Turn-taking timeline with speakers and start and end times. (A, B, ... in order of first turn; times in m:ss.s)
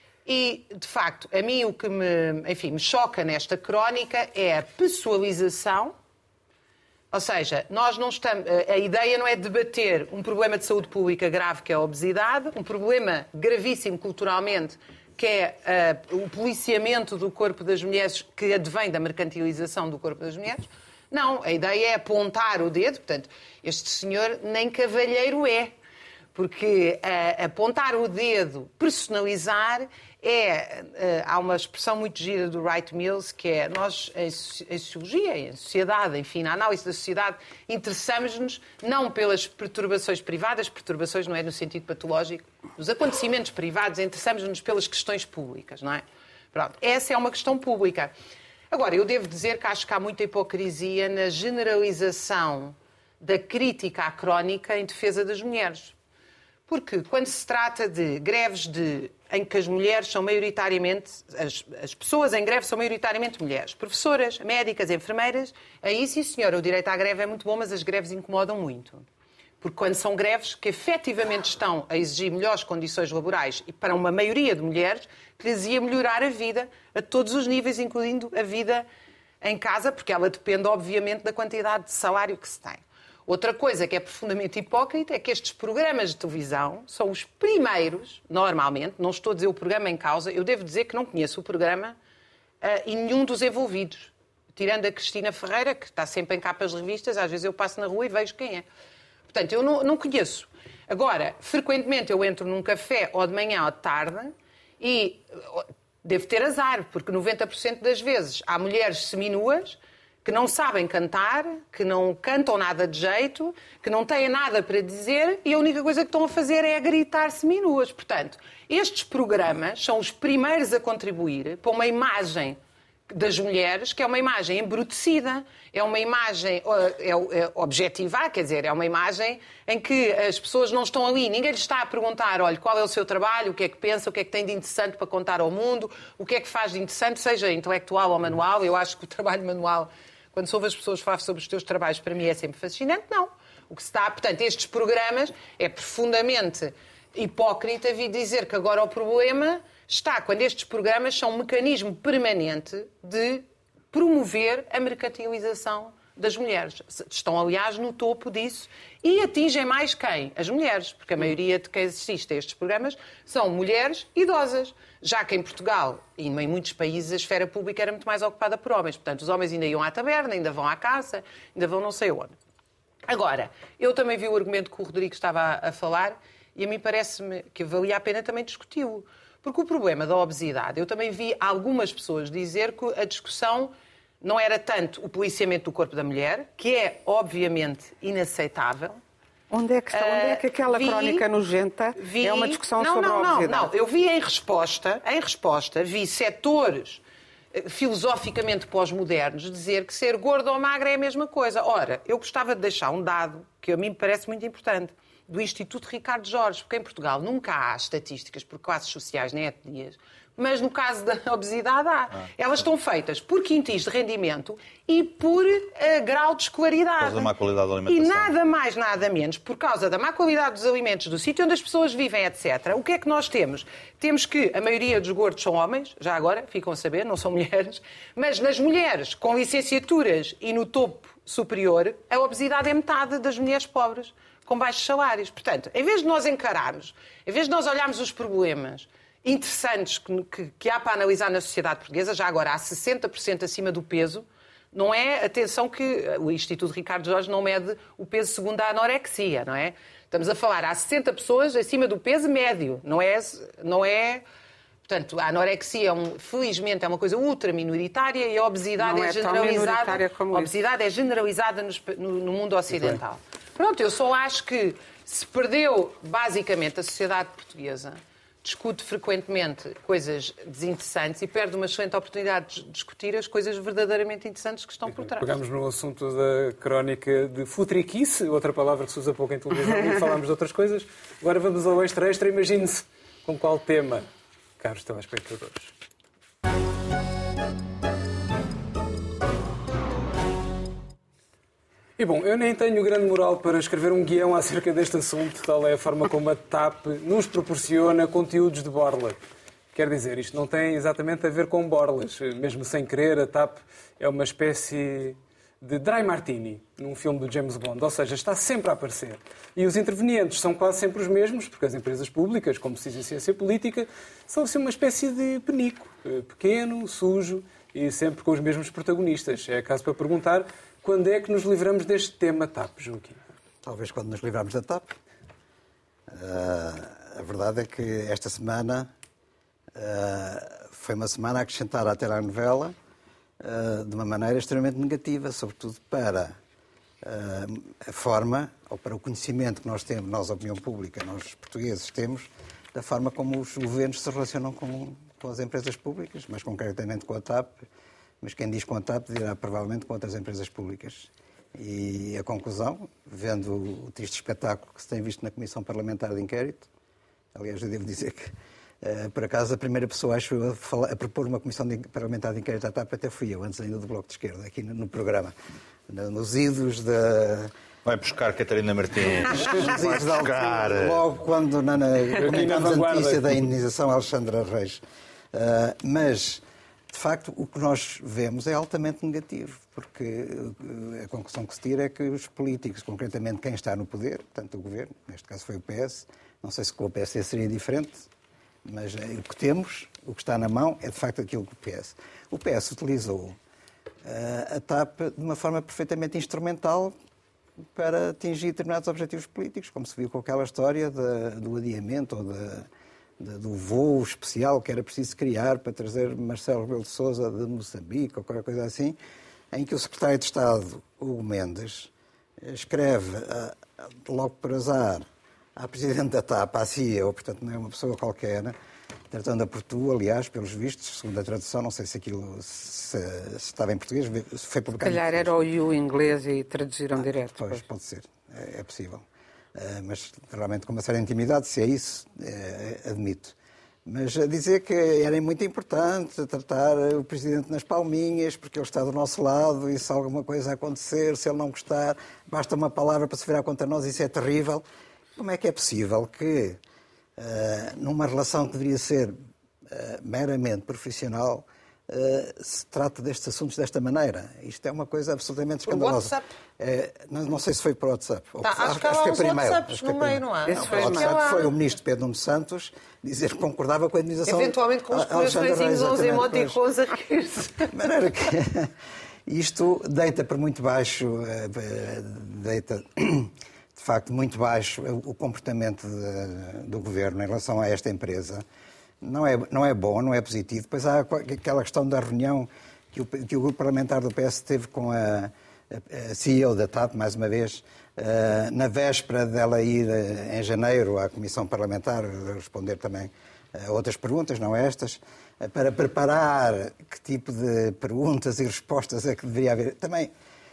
0:00.3-0:06.0 A
0:07.1-0:25.7 A
0:26.3-0:48.1 A
0:48.7-0:56.0 A
0:56.7-1:09.1 A
1:09.6-1:18.9 A
1:19.4-1:32.0 A
1:32.6-1:38.7 A
1:39.3-2:02.6 A
2:03.1-2:52.4 A
2:53.1-3:09.0 A
3:09.5-3:13.7 B
3:09.9-3:11.2 A
3:12.0-3:17.0 A
3:17.5-3:37.3 A
3:37.0-3:38.4 C
3:37.9-4:14.2 A
4:14.8-4:35.3 A
4:18.8-4:20.5 B
4:22.7-4:23.0 D
4:34.9-4:44.1 D
4:44.6-4:45.7 D
4:52.0-4:59.2 D
4:59.7-5:23.2 D
5:23.6-5:24.9 E
5:26.1-5:28.9 E
5:29.7-5:32.8 E
5:33.4-5:36.4 E
5:37.0-5:47.6 E
5:48.2-5:56.7 E
5:57.3-6:05.3 E
6:05.9-6:07.5 E
6:07.8-6:11.0 C
6:09.4-6:14.8 E
6:12.2-6:13.2 D
6:15.3-6:28.1 E
6:28.6-6:33.4 E
6:34.0-6:36.9 E
6:37.7-6:42.7 E
6:43.2-6:49.0 E
6:49.5-6:58.6 E
6:59.1-7:05.3 E
7:04.8-7:07.6 B
7:07.0-7:09.0 E
7:09.6-7:13.4 E
7:13.9-7:24.6 E
7:25.2-7:26.6 E
7:27.2-7:29.2 E
7:29.7-7:46.6 E
7:35.7-7:36.3 A
7:38.4-7:41.5 A
7:40.5-7:41.1 B
7:44.3-7:47.7 A
7:47.7-7:48.7 E
7:49.3-7:58.4 E
7:59.0-8:20.1 E